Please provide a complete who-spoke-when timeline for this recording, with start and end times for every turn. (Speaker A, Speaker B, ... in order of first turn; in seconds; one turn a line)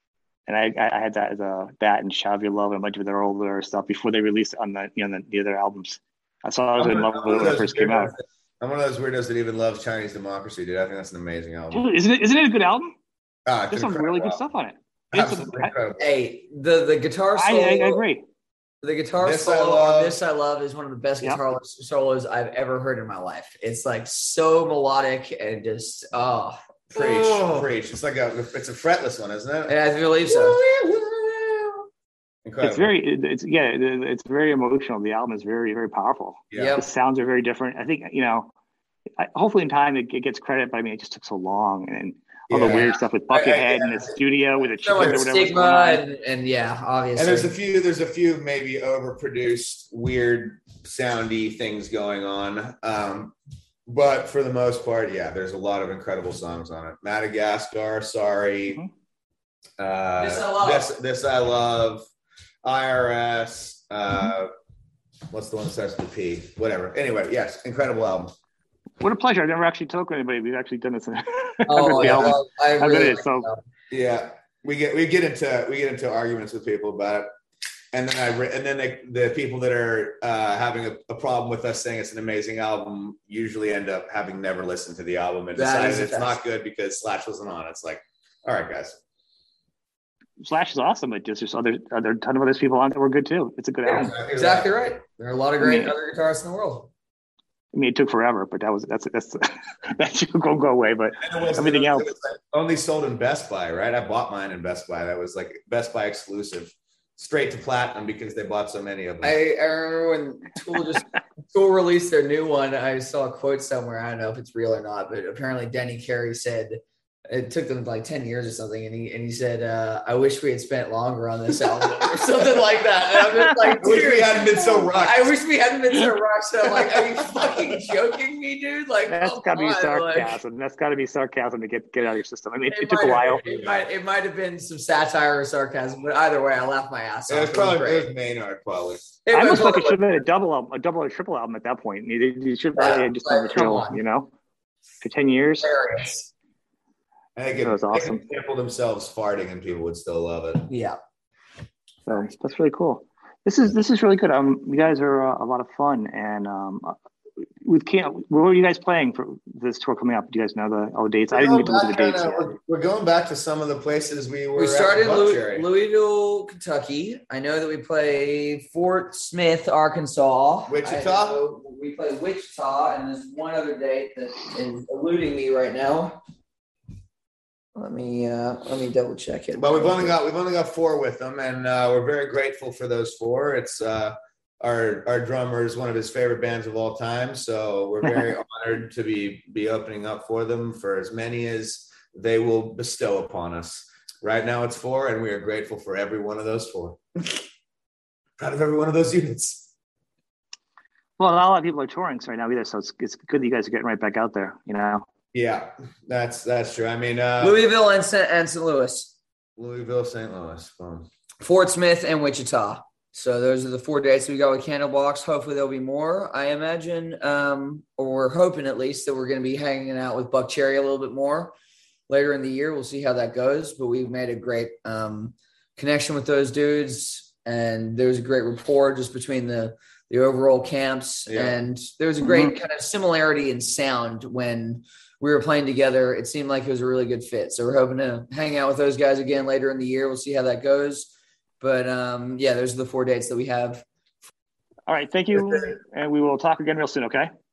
Speaker A: 0.5-8.1
Speaker B: 6.8-11.9
Speaker A: 11.7-12.9
Speaker B: 13.5-14.4
Speaker A: 13.7-15.7
Speaker B: 15.1-16.0
Speaker C: 16.0-18.0
Speaker A: 17.4-18.2
Speaker C: 18.8-27.6
Speaker B: 19.2-20.2
Speaker B: 26.9-31.8
Speaker C: 29.7-30.6
Speaker B: 32.5-32.9
Speaker A: 32.6-38.5
Speaker B: 36.5-36.8
Speaker C: 36.5-36.8
Speaker A: 39.2-46.0
Speaker B: 42.5-43.0
Speaker B: 43.6-43.9
Speaker C: 44.8-47.5
Speaker B: 47.2-53.3
Speaker B: 53.9-58.8
Speaker B: 59.8-62.0
Speaker C: 60.2-60.9
Speaker B: 62.6-64.5
Speaker B: 65.3-68.3
Speaker A: 69.0-73.5
Speaker C: 71.7-73.6
Speaker B: 73.9-77.3
Speaker B: 77.9-89.0
Speaker C: 85.5-86.4
Speaker A: 90.4-94.1
Speaker C: 93.8-96.9
Speaker B: 93.9-94.7
Speaker A: 95.6-95.9
Speaker A: 97.7-102.1
Speaker B: 101.2-109.4
Speaker C: 109.2-130.4
Speaker A: 123.5-123.8
Speaker B: 123.8-125.3
Speaker A: 129.1-133.7
Speaker C: 132.7-138.1
Speaker B: 137.3-139.1
Speaker C: 139.2-140.1
Speaker A: 139.3-144.3
Speaker C: 142.8-144.0
Speaker A: 145.0-145.7
Speaker C: 145.6-146.3
Speaker B: 147.4-150.7
Speaker A: 147.6-148.2
Speaker C: 150.7-151.0
Speaker A: 152.1-157.0
Speaker A: 157.6-162.5
Speaker B: 161.3-165.7
Speaker C: 164.6-176.2
Speaker B: 170.7-171.4
Speaker C: 177.8-180.1
Speaker B: 179.6-197.0
Speaker B: 198.4-199.7
Speaker A: 201.2-205.0
Speaker B: 205.3-207.6
Speaker C: 207.4-209.2
Speaker B: 209.6-211.1
Speaker C: 211.4-221.5
Speaker C: 222.1-243.9
Speaker B: 231.3-231.6
Speaker A: 232.2-232.5
Speaker A: 244.9-247.3